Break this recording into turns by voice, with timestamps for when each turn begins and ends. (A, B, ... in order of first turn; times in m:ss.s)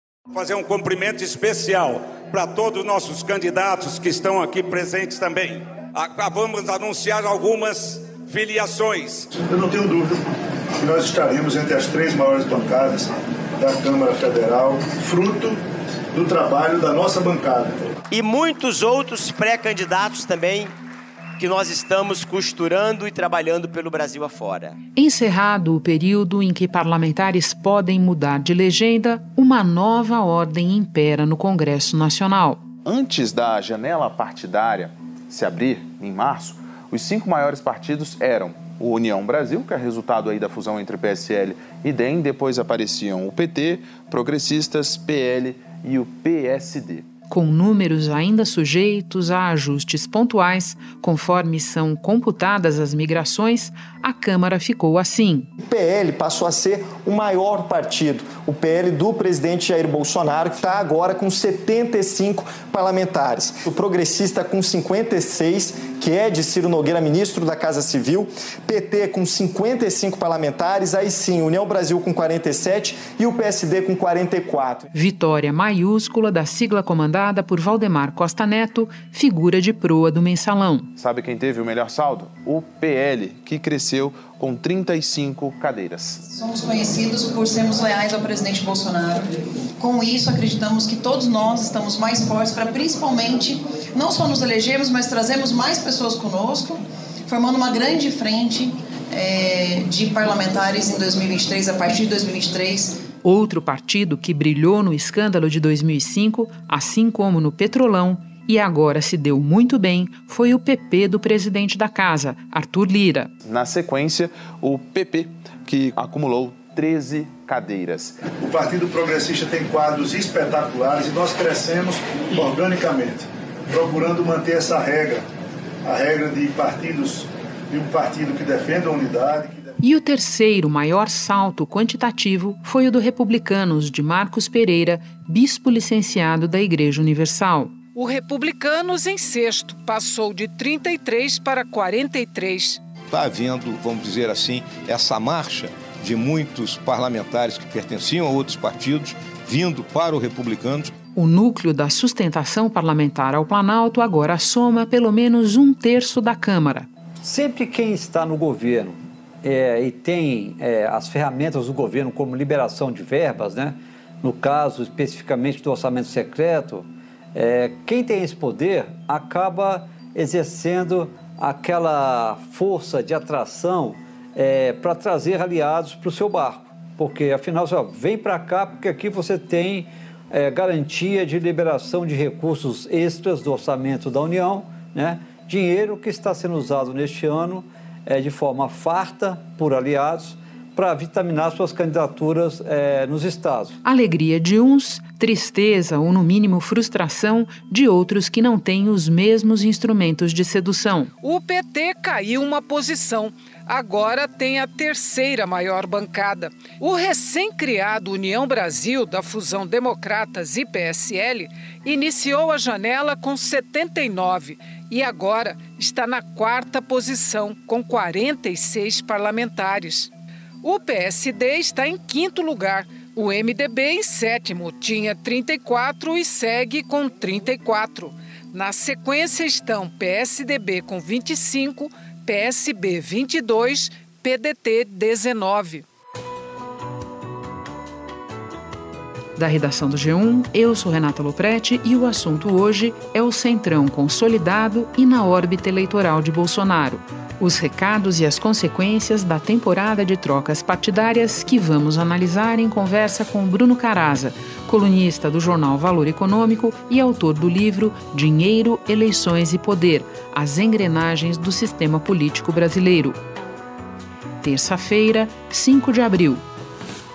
0:00.3-0:09.3 A
0:09.4-0:10.2 B
0:10.8-0:15.6 B
0:16.1-0:17.9 B
0:18.1-0:20.7 C
0:21.4-0:24.8 C
0:25.0-0:32.6 D
0:32.8-0:47.0 E
0:47.3-0:55.5 D
0:55.6-1:14.9 F
1:14.9-1:20.9 D
1:21.0-1:26.2 E
1:26.3-1:43.0 G
1:43.2-1:53.3 D
1:53.4-1:58.3 E
1:58.3-2:05.2 B
2:05.8-2:09.7 B
2:09.8-2:17.7 D
2:17.9-2:22.8 H
2:23.1-2:30.9 I
2:31.2-2:36.9 D
2:37.2-3:13.8 J
3:13.8-3:21.1 D
3:21.2-3:55.8 H
3:59.4-4:23.2 D
4:24.4-4:26.4 D